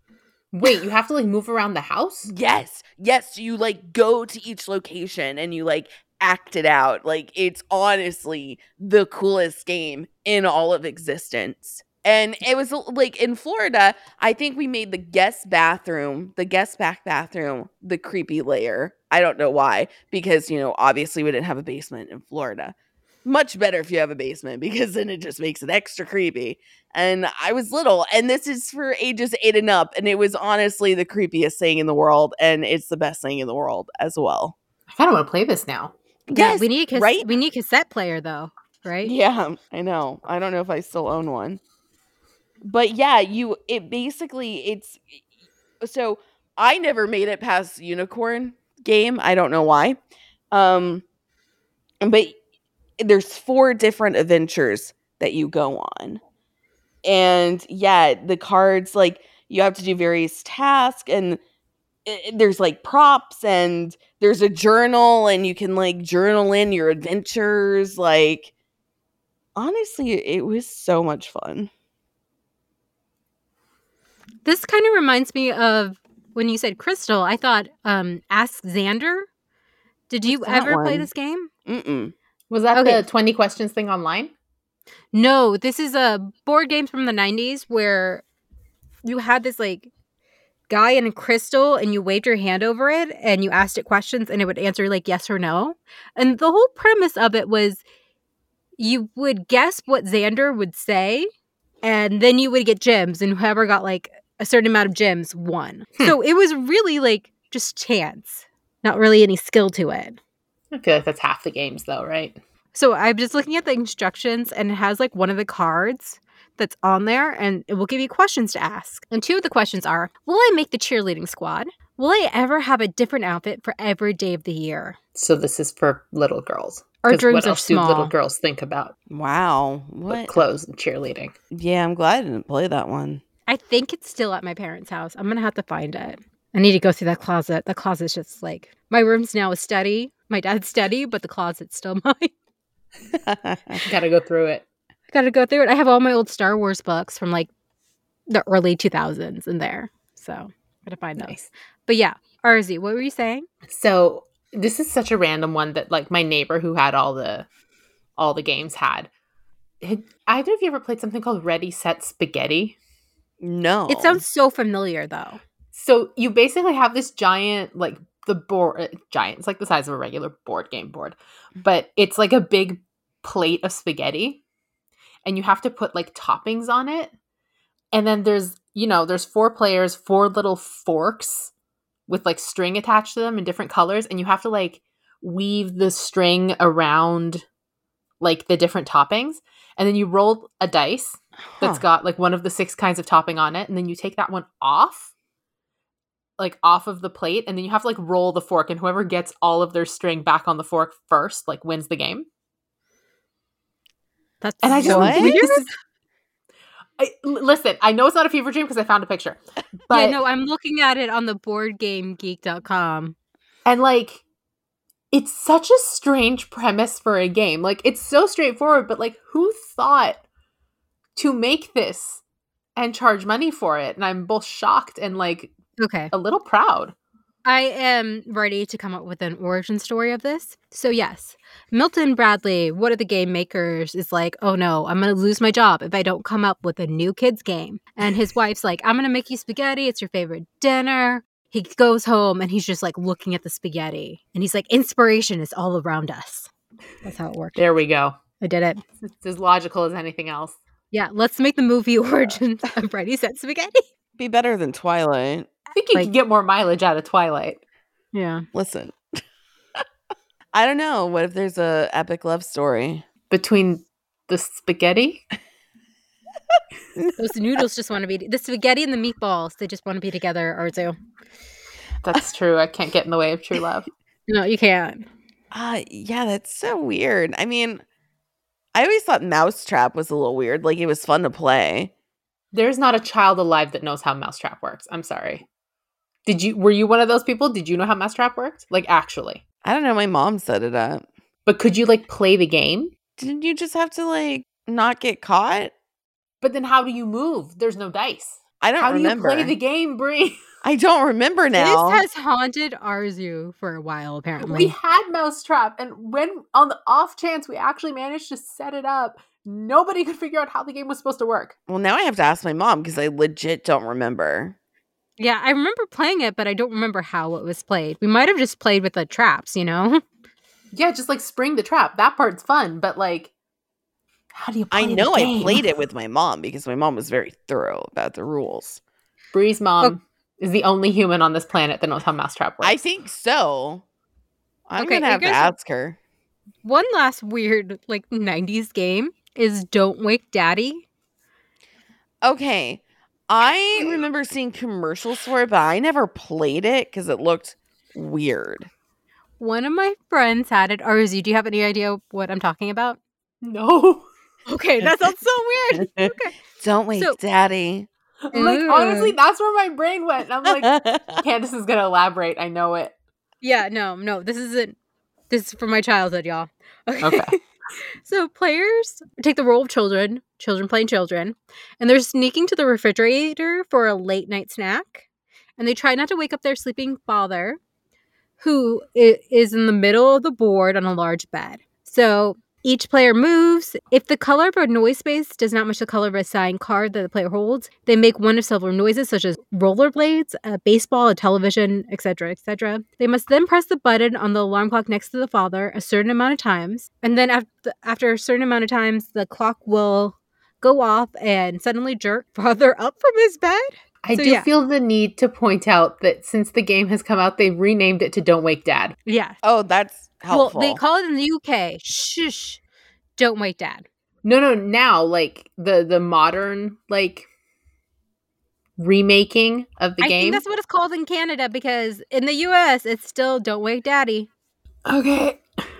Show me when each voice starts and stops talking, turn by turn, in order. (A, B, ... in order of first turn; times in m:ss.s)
0:00.5-0:02.3 A
0:02.3-0:34.6 B
0:34.9-0:35.9 A
0:36.3-0:37.3 B
0:36.3-0:39.1 C
0:39.0-0:41.6 B
0:42.6-0:45.2 B
0:45.8-0:50.0 B
0:50.5-0:51.0 B
0:52.0-0:52.4 B
0:53.0-0:56.2 B
0:57.0-1:01.4 B
1:02.1-1:08.5 B
1:09.6-1:11.7 B
1:14.4-1:19.3 C
1:20.1-1:21.5 C
1:20.3-1:21.1 B
1:21.7-1:22.1 B
1:22.5-1:24.3 A
1:22.8-1:23.0 C
1:25.1-1:28.2 C
1:29.0-1:29.9 C
1:30.7-1:37.8 C
1:38.8-1:41.3 C
1:41.8-1:50.2 C
1:50.7-1:52.4 A
1:52.7-2:05.0 C
2:05.2-2:09.0 A
2:07.0-2:08.1 C
2:09.1-2:10.4 B
2:10.1-2:11.3 A
2:11.5-2:13.2 B
2:13.5-2:22.3 C
2:23.2-2:23.8 B
2:23.8-2:24.6 A
2:25.1-2:27.5 C
2:28.3-2:33.5 C
2:33.7-2:37.5 A
2:38.2-2:39.1 A
2:39.8-2:42.8 A
2:43.4-2:44.2 B
2:43.9-2:45.4 C
2:45.7-2:54.4 A
2:55.2-2:57.1 A
2:57.9-3:01.5 A
3:02.1-3:07.4 A
3:08.2-3:15.1 A
3:11.6-3:11.8 B
3:16.4-3:22.3 A
3:24.4-3:25.7 C
3:24.6-3:25.7 A
3:24.8-3:25.4 B
3:27.0-3:30.2 A
3:29.9-3:33.2 C
3:33.6-3:34.2 A
3:35.1-3:40.2 A
3:41.2-3:42.2 A
3:42.8-3:45.5 A
3:45.8-3:46.1 C
3:46.1-3:47.0 A
3:47.5-4:06.5 C
4:07.0-4:07.6 C
4:07.6-4:08.2 A
4:08.4-4:08.8 C
4:09.2-4:10.6 A
4:10.9-4:13.8 C
4:14.2-4:15.5 B
4:15.7-4:17.6 A
4:18.1-4:18.5 C
4:18.5-4:19.0 B
4:20.5-4:23.0 B
4:23.3-4:25.2 A
4:27.2-4:31.0 C
4:32.0-4:33.9 A
4:34.3-4:35.1 C
4:35.5-4:37.8 B
4:38.7-4:41.9 B
4:42.5-4:45.4 A
4:46.3-4:49.4 A
4:49.6-4:51.0 B
4:51.5-4:52.9 A
4:53.2-4:55.7 B
4:56.4-5:00.4 A
4:58.6-4:59.6 B
5:00.6-5:02.0 B
5:01.5-5:04.8 C
5:04.4-5:11.6 A
5:11.7-5:14.6 B
5:15.2-5:20.0 C
5:20.7-5:23.3 A
5:24.3-5:25.6 A
5:24.7-5:28.8 B
5:29.3-5:32.8 A
5:32.6-5:33.8 B
5:34.7-5:36.0 B
5:34.8-5:35.5 C
5:36.6-5:40.8 C
5:42.2-5:48.7 B
5:49.4-5:53.0 C
5:53.4-5:54.1 A
5:54.5-5:56.4 C
5:54.8-5:55.1 B
5:55.7-5:57.9 B
5:58.3-6:03.0 A
5:58.3-5:59.2 C
6:00.5-6:01.2 B
6:03.4-6:04.8 C
6:05.3-6:07.4 C
6:07.0-6:07.4 A
6:08.0-6:15.1 C
6:15.6-6:17.6 C
6:18.4-6:44.5 C
6:44.0-6:49.0 A
6:49.1-6:49.4 C
6:49.4-6:50.8 B
6:50.3-6:52.6 C
6:53.2-6:53.9 C
6:54.2-6:57.3 A
6:58.8-7:00.4 A
7:00.0-7:04.3 C
7:04.9-7:05.4 A